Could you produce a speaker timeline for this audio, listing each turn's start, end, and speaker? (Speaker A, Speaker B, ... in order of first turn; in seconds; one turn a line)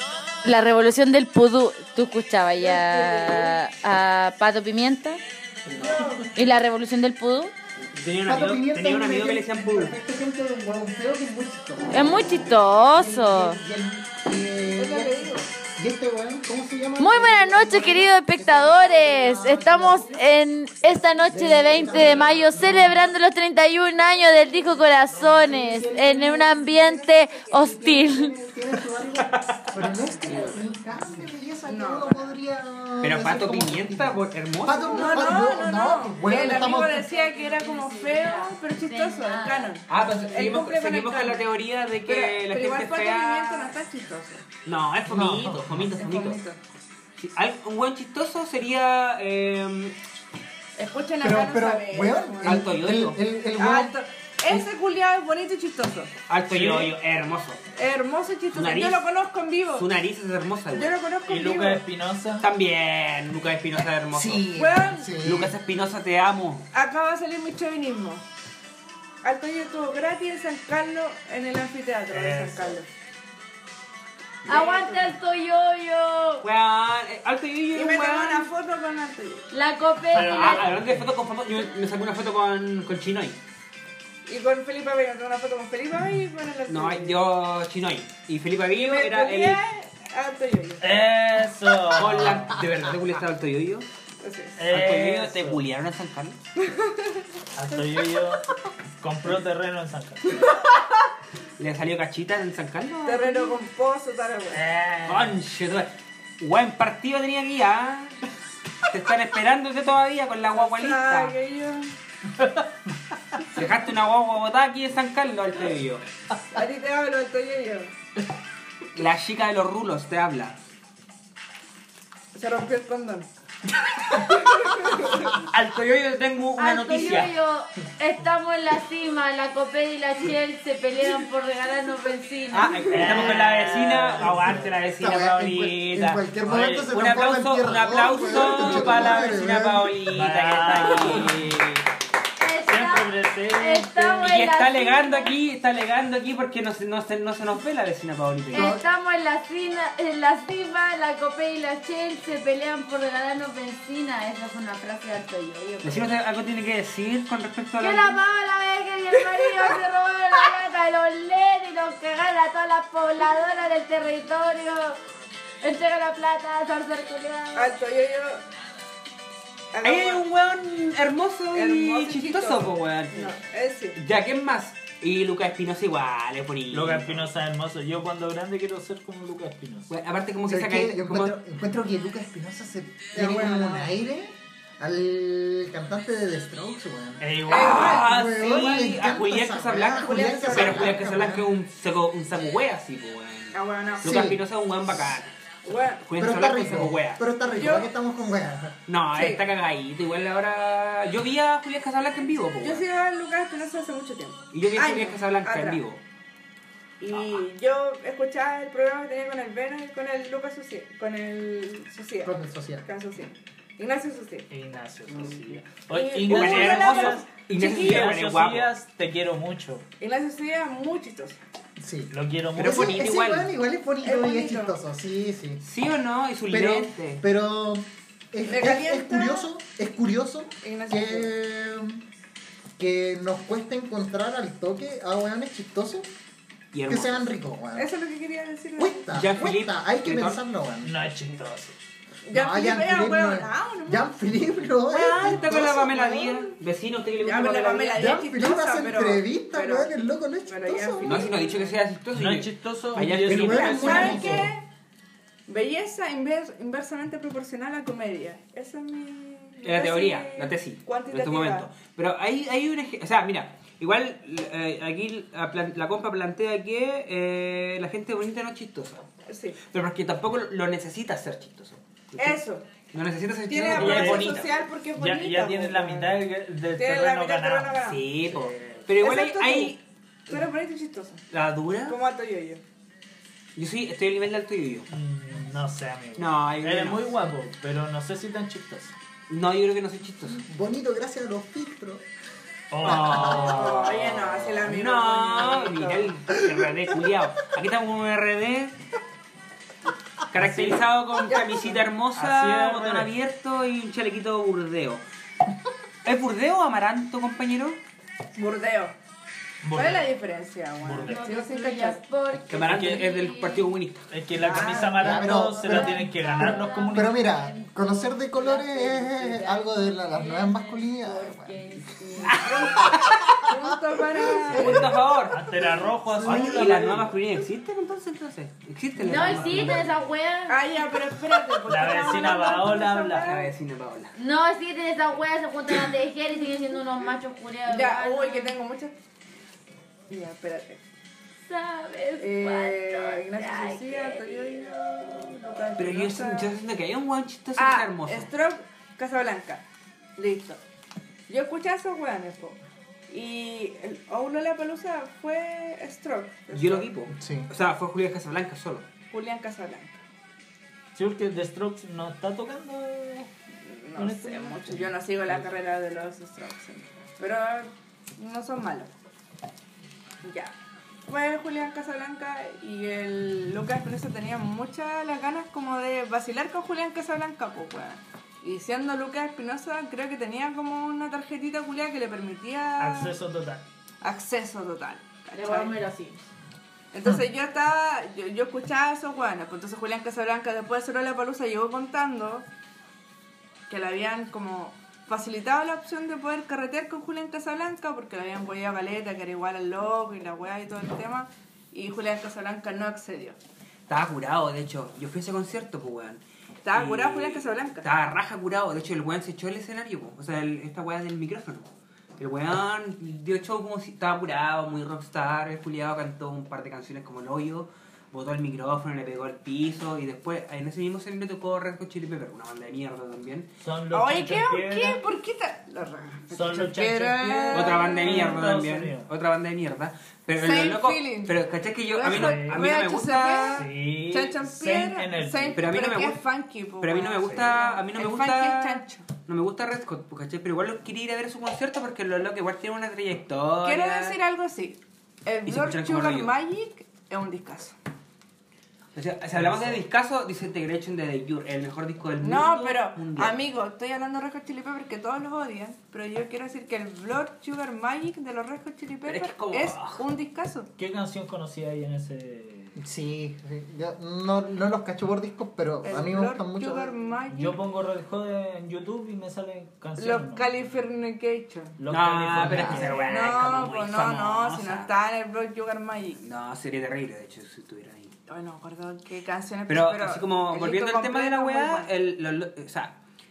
Speaker A: 0.4-5.2
Speaker B: 2.9-3.4
Speaker C: 5.7-6.2
Speaker B: 5.8-6.2
Speaker A: 6.3-7.5
Speaker D: 8.0-9.9
Speaker C: 8.2-20.2
Speaker A: 11.9-13.6
Speaker B: 14.8-15.4
Speaker A: 17.0-28.3
Speaker C: 21.3-23.0
Speaker C: 25.1-37.0
Speaker B: 31.6-32.3
Speaker D: 33.0-35.3
Speaker B: 34.9-41.5
Speaker A: 36.3-39.8
Speaker D: 39.9-43.7
Speaker B: 42.0-44.5
Speaker D: 44.6-46.4
Speaker C: 45.0-45.9
Speaker B: 45.9-46.6
Speaker D: 47.2-50.0
Speaker B: 50.7-52.7
Speaker C: 51.2-54.7
Speaker D: 52.4-53.2
Speaker B: 53.6-56.1
Speaker D: 56.3-57.6
Speaker E: 56.5-56.9
Speaker B: 57.7-59.9
Speaker D: 58.5-59.0
Speaker D: 59.7-60.9
Speaker B: 60.7-61.8
Speaker E: 61.3-62.5
Speaker D: 62.4-64.5
Speaker C: 64.1-65.5
Speaker B: 64.5-65.1
Speaker D: 65.2-66.7
Speaker B: 66.7-68.2
Speaker B: 69.2-72.9
Speaker E: 72.1-72.8
Speaker A: 74.5-76.4
Speaker B: 74.5-75.1
Speaker D: 76.4-78.5
Speaker B: 77.7-79.5
Speaker A: 79.5-80.7
Speaker E: 80.1-81.1
Speaker D: 80.2-83.4
Speaker B: 84.2-87.2
Speaker D: 86.7-89.6
Speaker B: 88.7-90.9
Speaker E: 90.8-92.6
Speaker D: 91.9-93.8
Speaker B: 94.2-94.7
Speaker E: 94.6-95.6
Speaker D: 94.7-96.4
Speaker B: 96.6-98.0
Speaker E: 97.5-98.4
Speaker E: 99.0-100.4
Speaker B: 100.3-100.9
Speaker D: 101.6-103.6
Speaker B: 103.0-104.6
Speaker E: 104.5-105.4
Speaker D: 105.0-108.2
Speaker D: 108.9-111.3
Speaker B: 110.5-111.9
Speaker D: 113.5-116.0
Speaker B: 116.5-117.9
Speaker D: 118.9-120.6
Speaker B: 122.3-123.3
Speaker B: 124.2-125.2
Speaker D: 125.5-127.3
Speaker A: 126.6-133.3
Speaker D: 132.5-136.3
Speaker E: 132.9-134.7
Speaker C: 134.2-139.9
Speaker E: 136.4-136.9
Speaker D: 136.9-141.8
Speaker E: 138.5-139.2
Speaker E: 140.1-141.6
Speaker A: 142.4-145.3
Speaker E: 142.7-144.3
Speaker D: 144.2-148.8
Speaker A: 148.5-156.1
Speaker C: 148.5-148.8
Speaker D: 155.8-158.2
Speaker A: 157.8-165.0
Speaker B: 159.4-159.7
Speaker A: 165.6-167.8
Speaker B: 167.5-168.4
Speaker B: 169.7-170.2
Speaker D: 169.8-173.3
Speaker B: 171.5-174.0
Speaker D: 173.9-177.3
Speaker E: 176.7-179.9
Speaker D: 179.9-181.3
Speaker C: 180.5-191.5
Speaker B: 183.1-183.9
Speaker E: 187.2-188.1
Speaker B: 187.4-188.1
Speaker D: 187.5-195.3
Speaker B: 190.1-190.9
Speaker B: 193.5-194.1
Speaker C: 194.0-194.4
Speaker B: 195.6-196.1
Speaker D: 196.0-197.2
Speaker C: 196.2-198.8
Speaker B: 197.5-197.9
Speaker D: 198.9-202.8
Speaker B: 199.1-199.4
Speaker B: 202.6-205.8
Speaker D: 204.5-206.0
Speaker B: 207.0-214.5
Speaker C: 212.2-212.8
Speaker E: 214.5-219.8
Speaker B: 215.9-218.1
Speaker D: 216.3-218.7
Speaker B: 220.0-221.4
Speaker C: 221.8-225.6
Speaker E: 222.1-223.0
Speaker D: 222.6-223.5
Speaker B: 224.0-224.7
Speaker D: 225.6-227.2
Speaker C: 226.5-232.0
Speaker B: 228.5-229.5
Speaker B: 230.6-231.3
Speaker C: 232.8-236.1
Speaker D: 236.7-237.3
Speaker C: 236.9-237.9
Speaker B: 237.8-239.1
Speaker C: 238.8-240.9
Speaker D: 239.1-240.4
Speaker E: 240.8-241.8
Speaker B: 242.2-244.2
Speaker C: 242.3-245.9
Speaker B: 244.9-246.5
Speaker D: 245.0-248.1
Speaker B: 247.2-249.9
Speaker C: 247.9-251.3
Speaker B: 250.5-251.8
Speaker D: 251.0-254.2
Speaker E: 252.1-254.5
Speaker C: 253.2-254.5
Speaker B: 253.4-254.6
Speaker B: 255.5-261.7
Speaker D: 259.6-269.0
Speaker B: 269.3-269.6
Speaker D: 269.6-274.5
Speaker B: 272.2-272.6
Speaker B: 273.5-278.1
Speaker E: 273.6-277.7
Speaker D: 277.8-279.8
Speaker E: 278.3-278.8
Speaker B: 279.0-281.2
Speaker D: 281.3-282.0
Speaker B: 281.9-282.6
Speaker D: 283.6-284.9
Speaker E: 284.9-288.9
Speaker D: 286.2-287.0
Speaker D: 289.3-290.4
Speaker C: 290.2-292.0
Speaker E: 292.7-294.1
Speaker C: 292.8-293.4
Speaker B: 292.8-296.1
Speaker D: 293.8-298.7
Speaker D: 300.3-305.0
Speaker E: 300.3-300.8
Speaker B: 301.2-301.9
Speaker E: 302.1-303.1
Speaker D: 306.0-307.8
Speaker B: 308.3-308.9
Speaker E: 309.6-310.1
Speaker B: 309.7-312.0
Speaker E: 310.8-311.2
Speaker A: 311.0-313.6
Speaker D: 312.5-314.0
Speaker E: 312.6-313.1
Speaker E: 314.1-317.2
Speaker B: 314.4-315.2
Speaker C: 314.9-321.6
Speaker A: 315.2-322.9
Speaker D: 322.3-323.4
Speaker C: 322.4-323.6
Speaker B: 322.4-322.8
Speaker B: 323.4-324.8
Speaker C: 324.4-325.2
Speaker D: 324.6-325.4
Speaker E: 324.6-327.1
Speaker C: 326.1-326.7
Speaker D: 326.2-329.9
Speaker A: 329.0-331.0
Speaker E: 329.1-330.0
Speaker B: 330.5-333.5
Speaker E: 331.6-333.2
Speaker D: 333.2-334.1
Speaker A: 334.1-338.6
Speaker B: 337.6-338.9
Speaker B: 340.1-340.8
Speaker A: 341.4-344.9
Speaker B: 342.2-346.5
Speaker D: 345.8-348.3
Speaker B: 347.6-349.6
Speaker B: 350.2-350.6
Speaker B: 351.3-356.9
Speaker D: 356.5-358.9
Speaker C: 357.1-357.5
Speaker B: 359.1-359.9
Speaker E: 360.9-363.3
Speaker B: 363.6-368.9
Speaker E: 364.0-365.4
Speaker B: 370.2-370.5
Speaker B: 371.1-383.1
Speaker E: 382.8-383.7
Speaker B: 384.0-385.7
Speaker A: 385.3-386.2
Speaker B: 386.9-392.4
Speaker B: 393.7-403.4
Speaker D: 403.9-423.5
Speaker B: 406.6-407.9
Speaker E: 423.6-425.0
Speaker B: 423.9-428.3
Speaker E: 426.3-429.1
Speaker D: 427.5-433.6
Speaker B: 430.4-431.4
Speaker B: 431.9-439.1
Speaker E: 432.1-432.7
Speaker E: 433.5-435.6
Speaker D: 435.5-436.2
Speaker D: 436.8-444.2
Speaker E: 437.2-437.5
Speaker B: 443.6-447.8
Speaker D: 445.4-446.3
Speaker D: 448.9-453.4
Speaker E: 449.4-449.7
Speaker B: 452.2-460.7
Speaker D: 459.1-460.0
Speaker E: 460.8-462.8
Speaker C: 462.8-466.9
Speaker B: 465.8-467.6
Speaker E: 467.3-470.5
Speaker B: 469.9-471.8
Speaker E: 471.8-473.2
Speaker D: 471.9-474.9
Speaker C: 472.4-472.9
Speaker B: 473.0-476.2
Speaker D: 476.2-478.1
Speaker B: 478.3-481.9
Speaker D: 479.7-482.9